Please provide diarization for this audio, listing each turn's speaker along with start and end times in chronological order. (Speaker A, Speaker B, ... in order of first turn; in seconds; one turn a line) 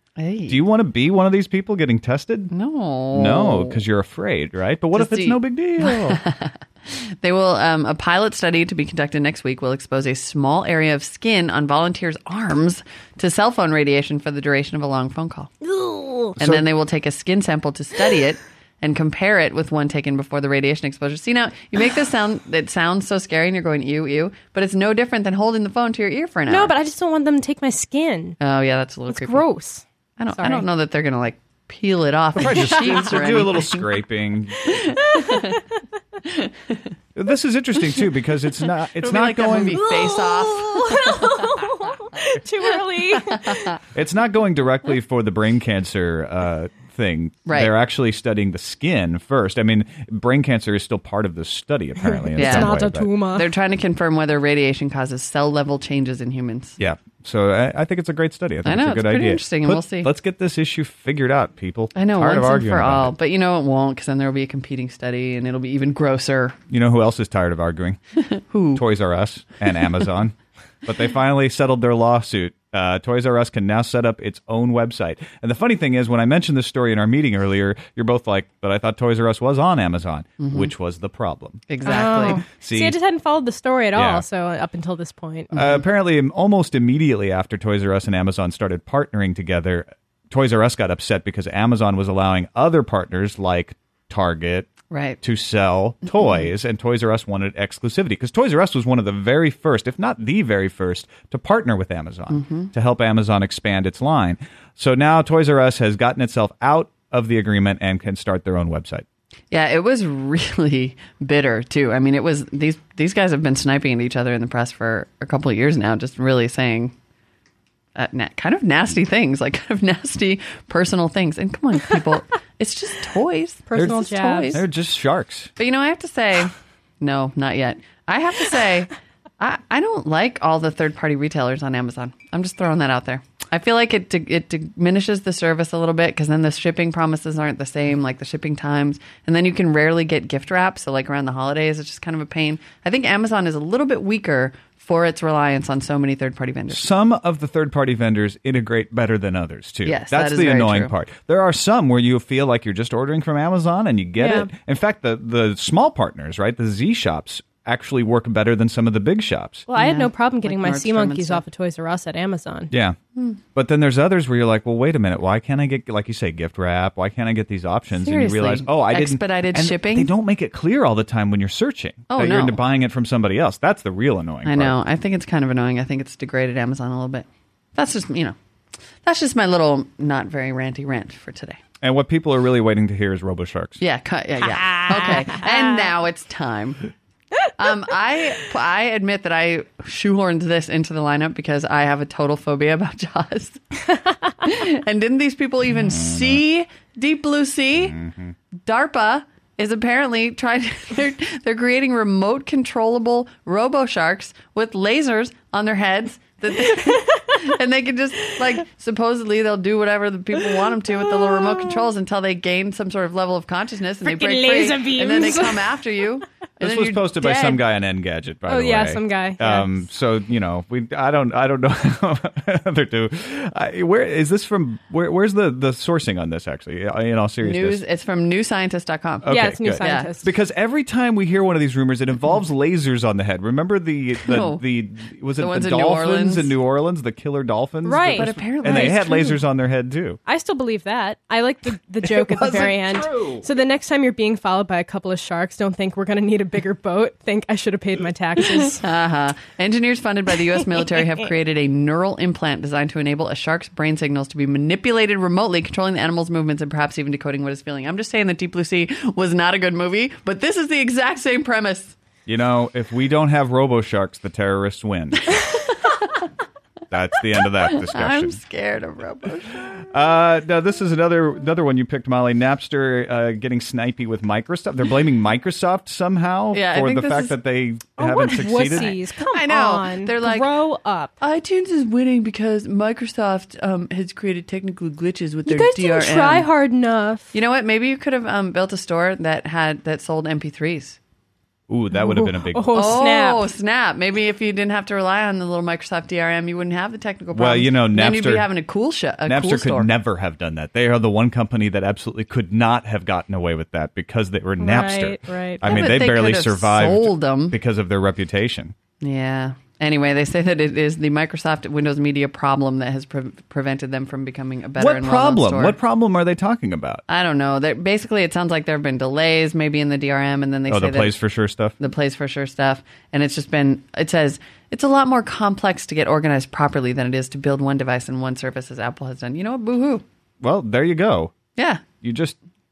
Speaker A: 0.2-0.6
Speaker B: 0.5-2.5
Speaker A: 2.5-3.8
Speaker B: 3.1-6.2
Speaker A: 4.9-15.5
Speaker C: 15.6-16.3
Speaker A: 16.4-26.8
Speaker B: 16.4-16.6
Speaker C: 26.5-28.4
Speaker A: 28.4-29.4
Speaker C: 29.1-29.8
Speaker A: 30.2-33.9
Speaker C: 30.3-30.6
Speaker B: 32.4-35.0
Speaker A: 34.7-35.6
Speaker C: 34.8-35.6
Speaker A: 36.2-36.9
Speaker B: 37.1-39.9
Speaker A: 38.9-41.5
Speaker C: 39.8-43.7
Speaker A: 43.1-43.8
Speaker B: 43.9-53.1
Speaker A: 47.5-47.7
Speaker C: 52.3-53.5
Speaker A: 52.4-52.8
Speaker A: 53.3-56.8
Speaker B: 56.8-63.1
Speaker A: 58.6-60.1
Speaker A: 61.9-66.6
Speaker B: 66.7-68.0
Speaker A: 68.3-68.8
Speaker B: 68.7-83.0
Speaker A: 80.4-80.7
Speaker A: 81.7-82.4
Speaker C: 81.8-85.7
Speaker B: 83.9-84.2
Speaker B: 85.5-109.0
Speaker A: 94.9-95.2
Speaker A: 96.1-96.4
Speaker A: 102.3-102.7
Speaker A: 109.5-116.9
Speaker A: 117.9-124.6
Speaker C: 123.7-124.6
Speaker B: 124.5-125.5
Speaker A: 125.6-146.9
Speaker B: 146.7-159.7
Speaker A: 149.8-150.9
Speaker C: 154.2-154.5
Speaker C: 159.7-162.7
Speaker A: 159.7-161.4
Speaker B: 162.7-163.0
Speaker B: 163.5-174.8
Speaker A: 167.9-170.1
Speaker A: 172.1-172.6
Speaker A: 174.4-178.3
Speaker A: 179.0-181.6
Speaker B: 181.8-183.8
Speaker A: 183.8-186.9
Speaker C: 184.4-185.8
Speaker A: 187.6-193.6
Speaker A: 194.4-198.0
Speaker B: 195.9-196.4
Speaker B: 197.8-198.3
Speaker A: 198.6-217.6
Speaker C: 206.8-207.5
Speaker C: 210.9-211.7
Speaker C: 214.0-215.8
Speaker B: 216.6-227.8
Speaker C: 218.5-219.7
Speaker A: 227.4-230.1
Speaker B: 229.2-240.2
Speaker C: 229.2-230.3
Speaker A: 234.2-234.6
Speaker A: 235.4-236.5
Speaker C: 237.8-238.9
Speaker A: 238.1-239.4
Speaker C: 240.2-248.8
Speaker B: 242.0-243.5
Speaker A: 248.8-261.9
Speaker C: 250.7-251.1
Speaker B: 262.3-265.4
Speaker A: 265.3-266.2
Speaker B: 266.9-268.4
Speaker A: 267.6-269.8
Speaker B: 269.7-278.9
Speaker A: 276.5-277.4
Speaker C: 278.0-281.1
Speaker A: 278.5-280.5
Speaker A: 281.2-286.5
Speaker C: 285.4-287.3
Speaker A: 287.3-291.0
Speaker B: 291.7-292.8
Speaker C: 291.9-293.5
Speaker A: 292.7-299.9
Speaker B: 297.3-298.5
Speaker B: 299.3-308.7
Speaker C: 304.6-305.8
Speaker A: 305.6-307.6
Speaker A: 309.0-315.8
Speaker B: 314.8-317.0
Speaker A: 317.1-321.1
Speaker B: 320.7-321.7
Speaker A: 321.8-330.0
Speaker B: 330.4-331.3
Speaker A: 331.6-331.8
Speaker B: 332.0-332.4